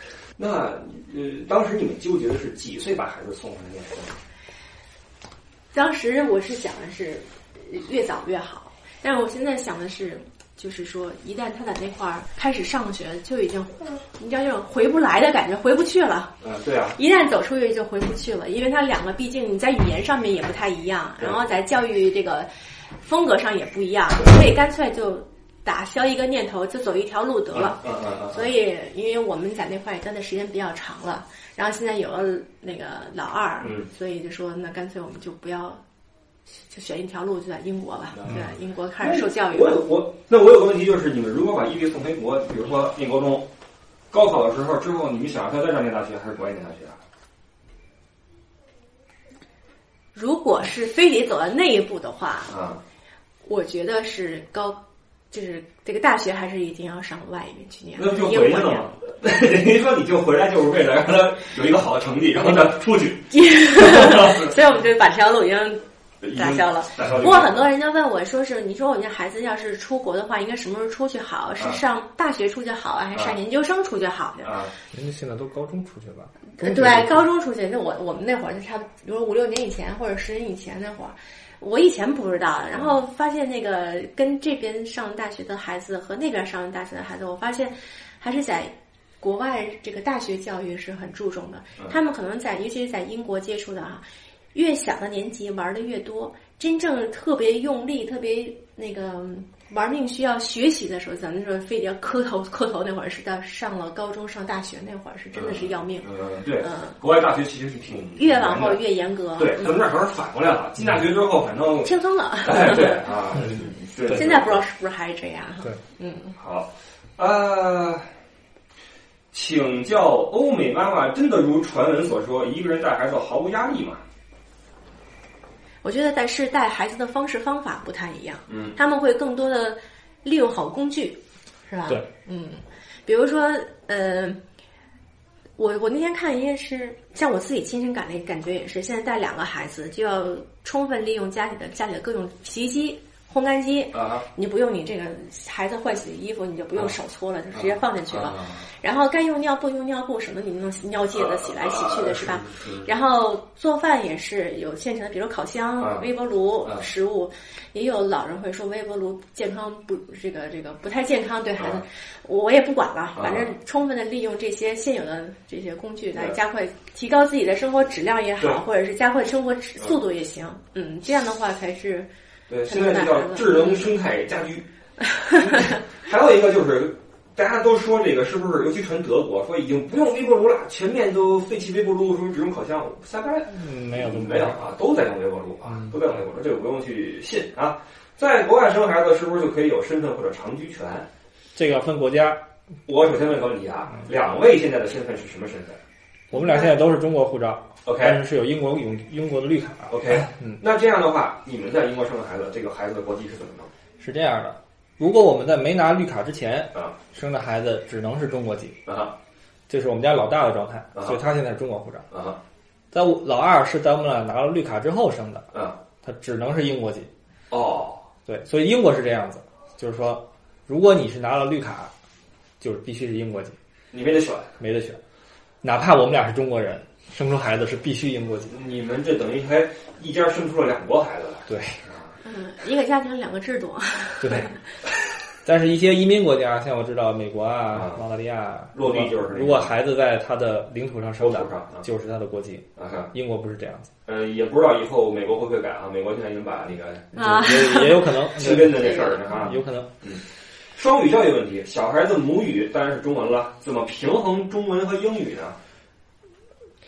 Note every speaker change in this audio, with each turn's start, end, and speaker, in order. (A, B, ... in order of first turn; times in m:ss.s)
0:00.4-0:04.2 A
0:05.7-0:16.3 B
0:16.4-0:17.0 A
0:16.9-0:35.8 B
0:27.5-0:28.4 A
0:33.6-0:33.9 A
0:36.5-0:39.9 B
0:38.1-0:43.5 A
0:44.1-0:47.0 A
0:50.1-0:52.6 B
0:52.5-0:52.8 A
0:53.4-0:58.9 B
0:58.0-1:04.5 A
1:03.3-1:14.5 B
1:06.2-1:07.6 A
1:14.4-1:14.7 A
1:14.9-1:17.2 C
1:16.6-1:47.0 B
1:45.3-1:48.8 A
1:48.2-1:49.8 B
1:49.4-1:54.6 A
1:51.8-1:56.4 B
1:56.4-1:58.0 A
1:59.3-2:04.0 A
2:05.8-2:14.4 B
2:08.5-2:08.7 A
2:15.6-2:52.1 B
2:23.9-2:24.2 A
2:27.5-2:28.6 A
2:31.1-2:32.9 A
2:35.8-2:36.0 A
2:43.2-2:43.5 A
2:52.5-2:54.7 A
2:52.7-2:53.9 B
2:55.1-2:55.8 B
2:55.3-3:11.1 A
3:03.5-3:04.6 C
3:11.5-3:12.4 C
3:12.9-3:15.8 A
3:16.3-3:16.7 B
3:16.3-3:20.6 C
3:17.8-3:18.2 A
3:19.9-3:23.7 A
3:24.0-3:28.8 C
3:28.8-3:29.1 A
3:29.7-3:32.0 C
3:32.1-3:32.4 A
3:32.9-3:35.5 C
3:36.0-3:37.1 C
3:37.5-3:38.0 A
3:38.2-3:41.9 C
3:42.6-3:43.6 C
3:43.9-3:44.6 A
3:44.6-3:45.0 C
3:45.6-3:48.5 C
3:48.5-3:52.1 A
3:51.5-3:51.8 C
3:52.2-3:54.6 B
3:54.2-3:54.5 C
3:55.4-4:03.9 C
3:57.7-3:58.0 A
3:58.7-3:59.7 A
4:01.2-4:01.8 A
4:02.8-4:03.1 A
4:04.0-4:07.6 A
4:07.1-4:09.4 B
4:07.1-4:09.9 C
4:08.3-4:10.2 A
4:10.7-4:15.6 A